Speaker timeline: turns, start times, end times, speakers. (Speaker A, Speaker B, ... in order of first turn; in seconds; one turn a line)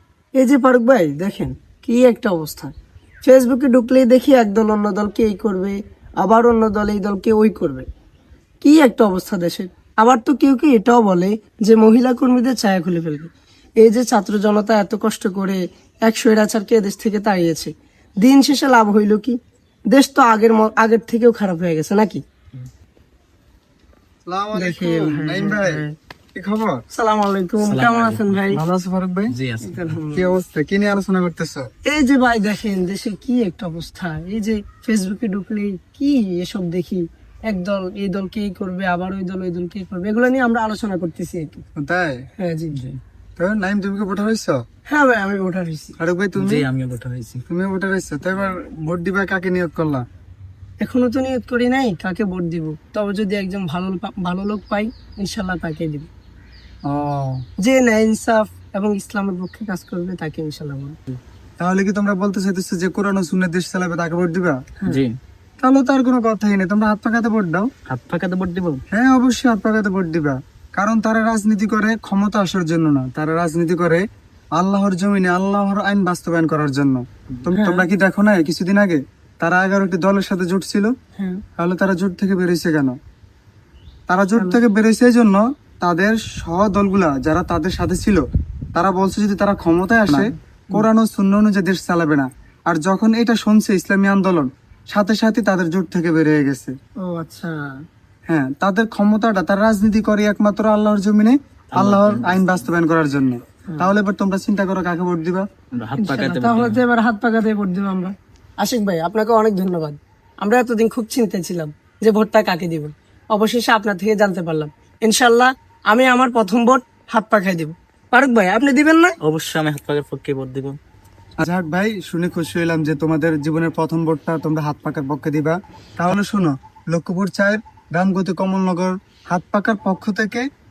Speaker A: 0.4-7.9
Speaker A: 8.6-17.7
Speaker A: 18.2-19.4
Speaker A: 19.9-22.2
Speaker B: 24.3-25.8
Speaker A: 24.5-25.9
Speaker B: 26.4-26.8
Speaker A: 26.9-28.6
Speaker C: 27.6-28.4
Speaker B: 28.5-29.3
Speaker C: 29.3-30.0
Speaker A: 29.6-30.3
Speaker B: 30.1-31.7
Speaker A: 31.9-41.6
Speaker B: 41.8-42.2
Speaker A: 42.4-42.8
Speaker B: 43.4-44.6
Speaker A: 44.9-46.0
Speaker B: 46.0-46.7
Speaker C: 46.4-47.4
Speaker B: 47.5-50.0
Speaker A: 50.8-56.1
Speaker B: 56.9-57.4
Speaker A: 57.6-61.0
Speaker B: 61.6-64.6
Speaker C: 64.9-65.1
Speaker B: 65.6-67.7
Speaker C: 67.9-68.8
Speaker B: 68.9-74.0
Speaker B: 74.6-80.9
Speaker A: 77.5-77.9
Speaker A: 81.2-81.4
Speaker B: 81.6-83.0
Speaker B: 84.1-88.2
Speaker B: 88.8-96.7
Speaker A: 90.1-90.9
Speaker A: 97.0-97.6
Speaker B: 98.3-105.5
Speaker C: 101.7-102.7
Speaker C: 105.8-106.8
Speaker A: 106.0-119.2
Speaker C: 119.2-120.8
Speaker B: 121.4-130.5